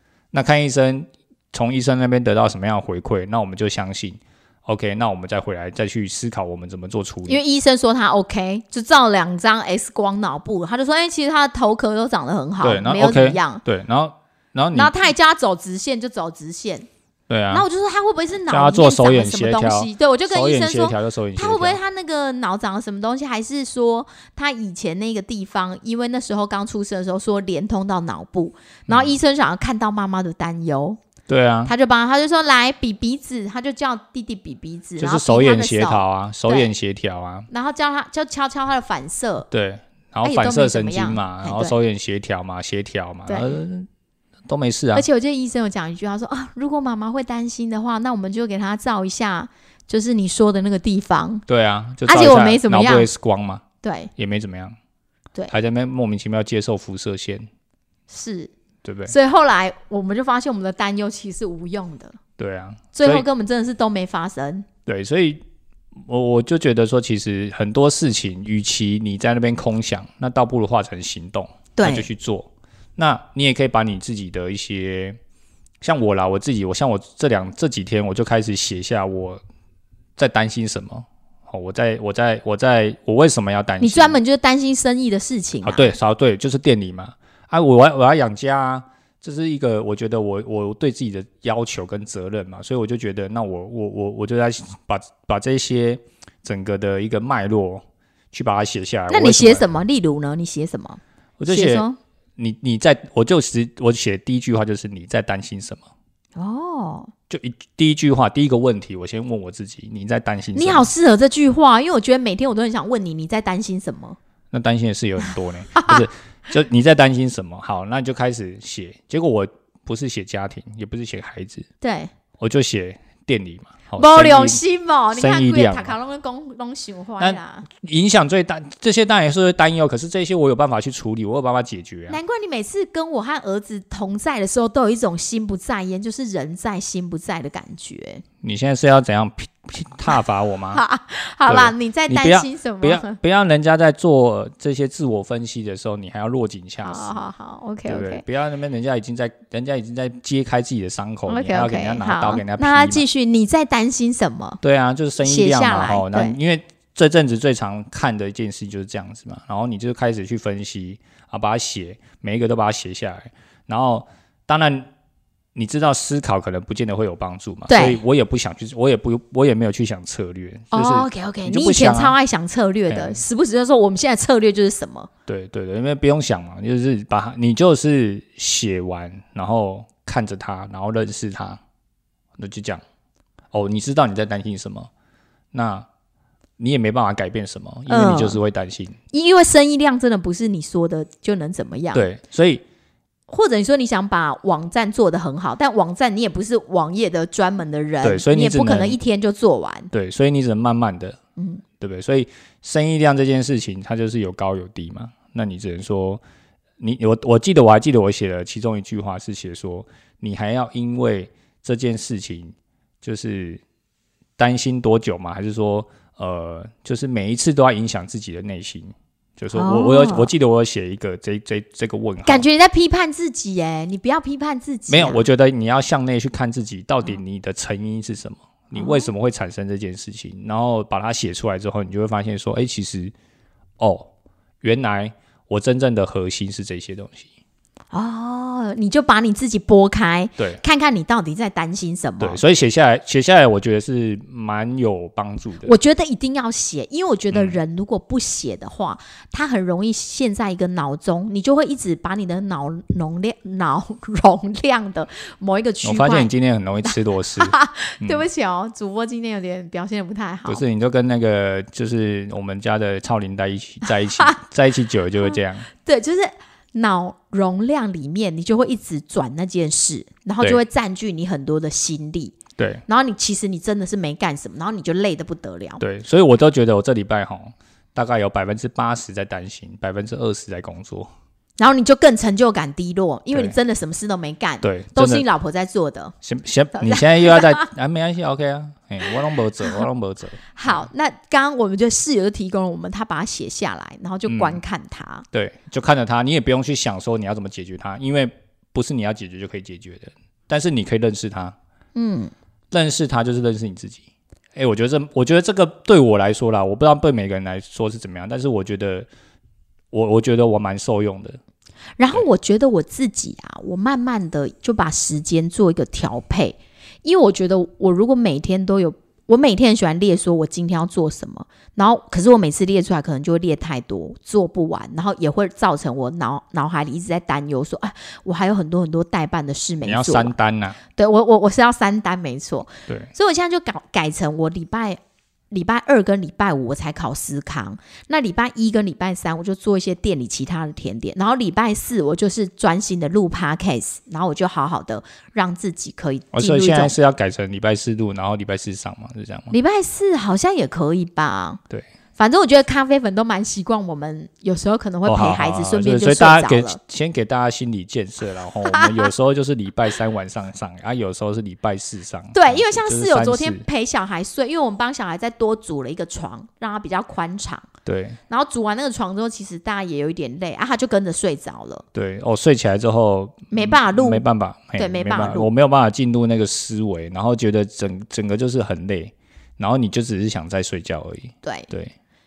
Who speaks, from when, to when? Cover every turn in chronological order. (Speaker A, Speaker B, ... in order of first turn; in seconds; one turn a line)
Speaker A: 0.3-7.4
Speaker B: 7.3-13.6
Speaker A: 12.6-14.9
Speaker B: 14.7-16.9
Speaker A: 17.3-17.7
Speaker B: 17.5-31.0
Speaker A: 18.5-21.8
Speaker A: 28.9-29.1
Speaker A: 31.3-31.7
Speaker B: 31.6-36.7
Speaker A: 35.0-37.5
Speaker B: 37.5-39.5
Speaker A: 39.5-43.9
Speaker B: 40.2-41.7
Speaker B: 43.3-43.6
Speaker A: 44.5-45.0
Speaker B: 44.9-51.4
Speaker A: 51.5-53.6
Speaker B: 52.0-53.1
Speaker B: 53.8-54.1
Speaker A: 54.1-54.8
Speaker A: 55.5-57.5
Speaker B: 58.1-58.5
Speaker A: 58.8-59.1
Speaker B: 59.1-62.2
Speaker A: 62.4-63.2
Speaker B: 62.9-64.7
Speaker A: 64.8-65.4
Speaker A: 66.0-75.2
Speaker B: 71.8-72.1
Speaker A: 75.8-79.4
Speaker A: 80.2-84.2
Speaker B: 83.8-85.9
Speaker A: 85.6-99.6
Speaker B: 99.1-102.0
Speaker A: 101.4-101.8
Speaker A: 102.4-105.8
Speaker B: 106.3-107.1
Speaker A: 107.3-110.9
Speaker B: 110.5-114.2
Speaker A: 114.5-121.7
Speaker B: 115.7-116.0
Speaker B: 121.8-122.1
Speaker A: 122.4-124.6
Speaker B: 124.0-127.7
Speaker A: 125.1-125.9
Speaker A: 127.2-132.2
Speaker B: 132.1-138.2
Speaker A: 138.4-140.8
Speaker B: 140.7-143.2
Speaker A: 141.5-147.2
Speaker B: 146.8-148.2
Speaker A: 147.8-153.0
Speaker B: 151.3-154.6
Speaker A: 154.6-164.9
Speaker B: 155.2-156.4
Speaker A: 165.5-172.2
Speaker B: 167.7-168.0
Speaker B: 170.7-175.1
Speaker A: 172.9-173.2
Speaker A: 175.3-181.6
Speaker A: 182.4-182.8
Speaker A: 183.5-184.9
Speaker A: 185.5-185.9
Speaker A: 186.6-189.0
Speaker B: 187.9-188.4
Speaker B: 189.1-192.0
Speaker A: 191.9-192.6
Speaker B: 193.3-199.9
Speaker A: 198.0-199.0
Speaker A: 199.9-201.2
Speaker B: 201.4-201.6
Speaker A: 201.8-206.2
Speaker A: 206.8-213.6
Speaker A: 214.4-222.4
Speaker B: 219.5-220.3
Speaker B: 222.2-225.2
Speaker A: 224.9-233.1
Speaker B: 228.7-229.1
Speaker A: 233.8-234.1
Speaker A: 234.6-237.3
Speaker B: 237.9-242.4
Speaker A: 242.2-245.7
Speaker B: 245.6-256.3
Speaker A: 247.3-247.6
Speaker A: 255.8-258.2
Speaker B: 256.8-260.6
Speaker A: 260.5-265.7
Speaker B: 265.2-275.8
Speaker A: 272.6-272.8
Speaker A: 275.8-281.1
Speaker B: 281.6-286.1
Speaker A: 284.6-285.2
Speaker A: 286.2-290.9
Speaker B: 286.7-287.7
Speaker B: 290.5-295.2
Speaker A: 294.3-294.6
Speaker A: 295.3-301.5
Speaker B: 301.9-302.3
Speaker A: 302.7-304.0
Speaker A: 304.5-309.1
Speaker A: 309.9-311.4
Speaker B: 312.0-330.3
Speaker A: 329.8-330.8
Speaker B: 330.9-335.0
Speaker B: 335.5-346.9
Speaker A: 346.3-349.5
Speaker B: 349.5-351.6
Speaker B: 352.2-356.8
Speaker A: 355.0-363.6
Speaker B: 358.7-359.1
Speaker B: 362.3-367.7
Speaker A: 367.8-368.2
Speaker B: 368.3-371.8
Speaker A: 371.9-381.9
Speaker B: 373.5-374.2
Speaker B: 374.8-375.5
Speaker B: 381.4-381.7